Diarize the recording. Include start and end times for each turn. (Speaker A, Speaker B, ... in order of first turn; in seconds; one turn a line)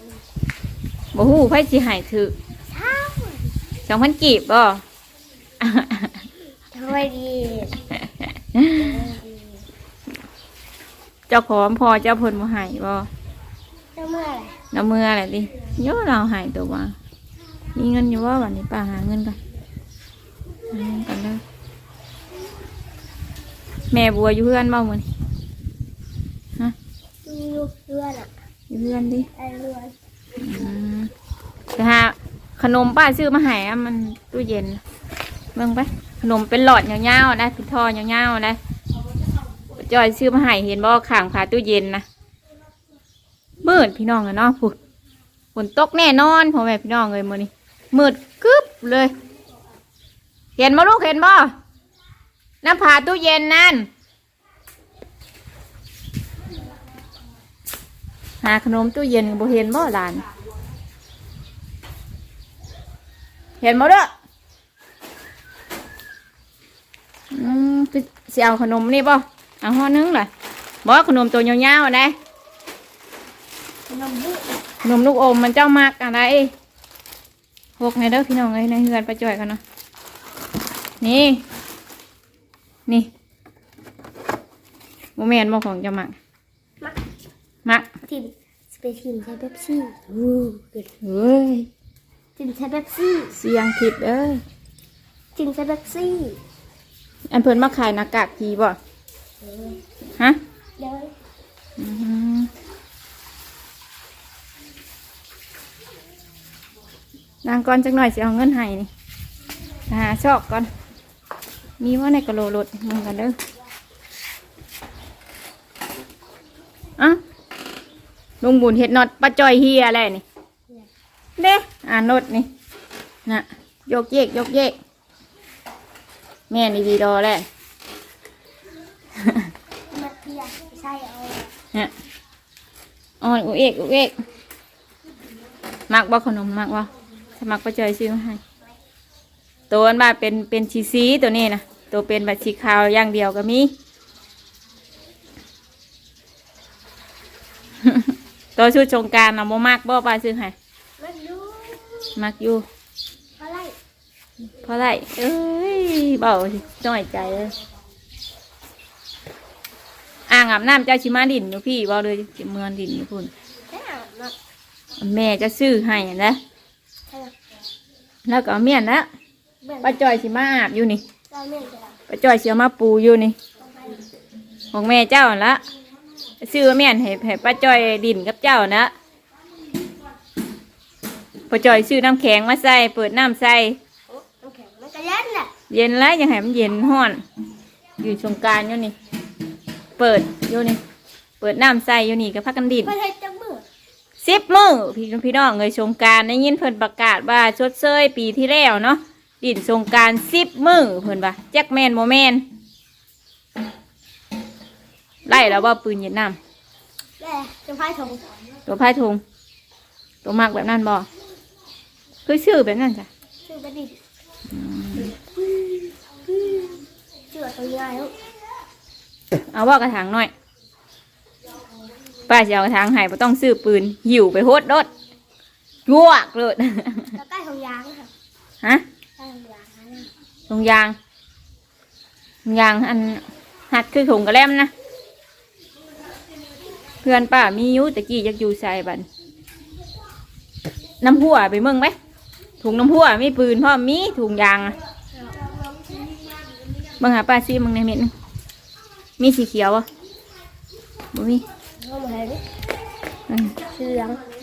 Speaker A: 1.1-2.4
Speaker B: 2.7-3.5
Speaker A: 3.9-4.8
Speaker A: 5.6-6.2
Speaker B: 6.7-7.8
Speaker A: 8.5-9.0
Speaker B: 8.7-9.7
Speaker A: 11.3-13.1
Speaker B: 14.0-14.6
Speaker A: 14.7-17.0
Speaker A: 17.8-19.4
Speaker A: 20.7-21.4
Speaker A: 23.9-25.1
Speaker B: 27.2-28.4
Speaker A: 28.7-29.3
Speaker B: 29.4-29.9
Speaker A: 30.4-31.1
Speaker A: 31.8-34.8
Speaker A: 35.5-38.6
Speaker A: 39.7-42.0
Speaker A: 43.6-44.8
Speaker A: 45.5-49.1
Speaker A: 50.6-51.5
Speaker A: 52.6-53.9
Speaker A: 58.4-60.2
Speaker A: 63.6-64.1
Speaker A: 67.3-70.3
Speaker A: 70.8-72.2
Speaker B: 73.9-74.6
Speaker A: 74.8-76.5
Speaker A: 77.8-79.6
Speaker A: 81.0-81.4
Speaker A: 85.2-86.2
Speaker A: 87.7-87.9
Speaker B: 88.1-90.9
Speaker A: 91.0-91.7
Speaker B: 92.4-93.3
Speaker A: 93.3-94.4
Speaker B: 95.3-96.4
Speaker A: 97.3-98.8
Speaker B: 99.4-99.8
Speaker B: 100.8-101.1
Speaker A: 101.8-102.5
Speaker A: 107.4-108.9
Speaker A: 109.9-110.7
Speaker A: 111.8-113.4
Speaker A: 118.4-120.2
Speaker A: 121.4-122.5
Speaker A: 123.3-124.8
Speaker A: 126.5-127.5
Speaker A: 129.2-129.5
Speaker B: 129.9-131.5
Speaker A: 133.2-134.1
Speaker A: 135.9-138.4
Speaker A: 139.7-143.7
Speaker A: 147.8-150.6
Speaker B: 151.0-152.2
Speaker A: 152.2-152.7
Speaker B: 153.4-153.8
Speaker A: 154.6-157.5
Speaker A: 160.3-163.3
Speaker B: 163.7-164.3
Speaker A: 165.0-166.4
Speaker A: 168.2-169.1
Speaker B: 169.6-170.0
Speaker A: 169.8-171.0
Speaker B: 171.3-171.9
Speaker A: 172.1-173.4
Speaker B: 173.6-174.0
Speaker A: 174.7-175.6
Speaker A: 176.4-178.9
Speaker A: 181.5-183.8
Speaker B: 184.4-185.5
Speaker A: 185.7-187.2
Speaker A: 188.0-188.9
Speaker A: 190.0-190.8
Speaker A: 191.4-192.9
Speaker B: 192.8-193.7
Speaker A: 194.2-202.4
Speaker A: 205.3-206.4
Speaker B: 207.2-208.3
Speaker A: 208.7-209.2
Speaker A: 210.2-211.1
Speaker A: 212.3-213.1
Speaker B: 213.4-214.0
Speaker A: 214.5-215.1
Speaker B: 215.0-218.2
Speaker A: 219.4-220.3
Speaker A: 222.3-224.9
Speaker A: 225.9-227.2
Speaker B: 227.2-228.1
Speaker B: 229.2-230.1
Speaker A: 230.5-231.0
Speaker A: 232.4-234.7
Speaker A: 237.0-239.1
Speaker A: 241.0-242.0
Speaker A: 242.6-244.8
Speaker A: 247.0-248.1
Speaker A: 249.2-249.9
Speaker A: 251.1-251.4
Speaker B: 251.8-252.4
Speaker A: 253.3-253.6
Speaker B: 253.6-254.2